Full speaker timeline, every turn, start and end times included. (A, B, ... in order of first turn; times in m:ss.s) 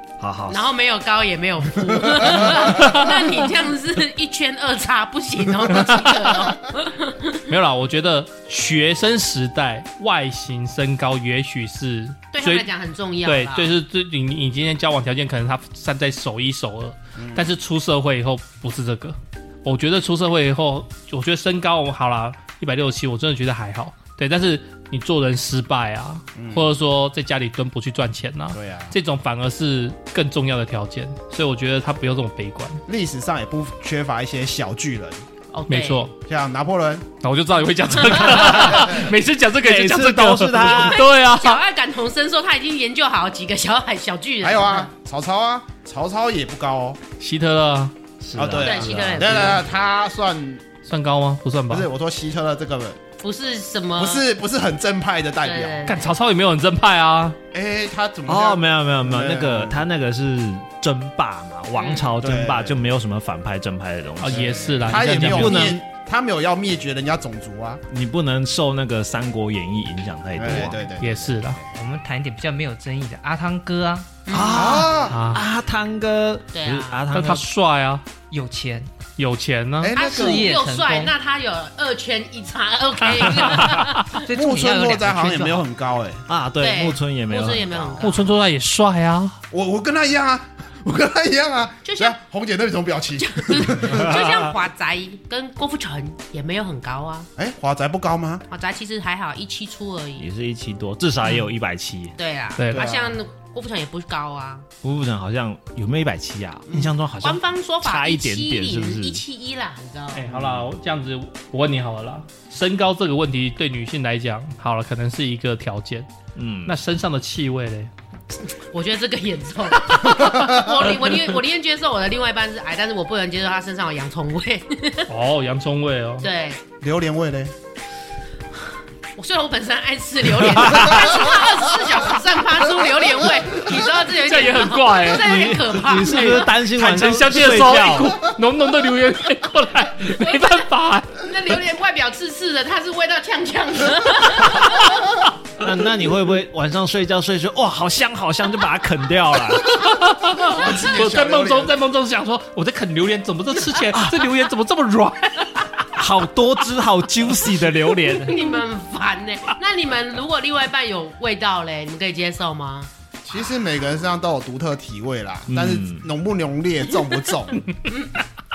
0:00.2-0:00.6 A
0:00.5-0:07.4 B
0:01.9-0:02.8 C
0:02.6-0:03.4 D
0:05.7-0:06.2 D
0:07.5-0:12.7 D
0:12.3-0:13.7 B
0:13.2-0:32.8 D
0:17.2-0:17.5 C
0:26.4-0:26.7 C
0:28.5-0:29.0 C
0:32.9-0:35.2 C
0:35.5-0:36.1 B
0:35.7-0:36.1 D
0:36.2-0:37.1 C
0:37.2-0:41.6 D
0:39.6-0:41.0 A
0:40.6-0:44.9 B
0:44.4-0:47.0 C
0:47.2-0:47.9 D
0:48.2-0:49.5 A
0:48.4-0:50.6 C
0:48.6-0:49.6 B
0:50.9-0:51.9 D
0:51.7-0:53.0 C
0:53.2-0:54.2 B
0:54.0-0:55.8 C
0:55.4-0:56.1 B
0:55.9-0:57.4 D
0:57.5-0:59.8 C
0:58.3-1:05.8 A
1:01.8-1:02.2 B
1:02.2-1:02.9 C
1:04.2-1:05.8 D
1:04.3-1:07.8 C
1:07.9-1:10.9 A
1:10.4-1:11.6 C
1:11.0-1:11.6 D
1:11.7-1:14.2 E
1:14.3-1:15.0 B
1:14.3-1:17.5 A
1:14.5-1:15.2 C
1:15.1-1:15.4 D
1:16.5-1:17.0 B
1:17.1-1:18.0 D
1:18.3-1:18.9 E
1:19.2-1:20.0 D
1:19.8-1:20.6 C
1:19.9-1:24.2 B
1:20.0-1:21.1 E
1:23.0-1:24.0 D
1:24.2-1:25.7 E
1:24.3-1:26.2 C
1:26.3-1:27.9 A
1:26.6-1:28.3 B
1:27.7-1:28.1 C
1:28.0-1:29.4 D
1:29.5-1:34.2 C
1:31.8-1:32.2 B
1:33.2-1:37.3 B
1:33.9-1:34.5 A
1:37.4-1:38.4 C
1:38.5-1:40.3 B
1:40.2-1:42.1 A
1:42.2-1:44.7 B
1:42.6-1:42.9 D
1:42.7-1:43.2 C
1:44.8-1:49.2 A
1:47.2-1:50.3 B
1:50.1-1:56.1 D
1:50.3-1:50.7 A
1:56.4-1:56.7 A
1:56.7-1:57.9 D
1:58.7-2:05.1 B
2:00.2-2:00.5 C
2:05.1-2:06.3 D
2:06.2-2:06.6 B
2:06.8-2:07.5 C
2:09.2-2:16.5 B
2:14.1-2:21.2 D
2:15.2-2:18.3 A
2:20.2-2:20.5 B
2:21.2-2:25.1 B
2:25.6-2:29.9 A
2:29.6-2:35.9 D
2:30.3-2:31.8 C
2:33.9-2:34.5 A
2:36.0-2:38.4 A
2:38.2-2:42.9 B
2:43.2-2:47.6 C
2:45.5-2:46.1 A
2:47.9-2:48.2 B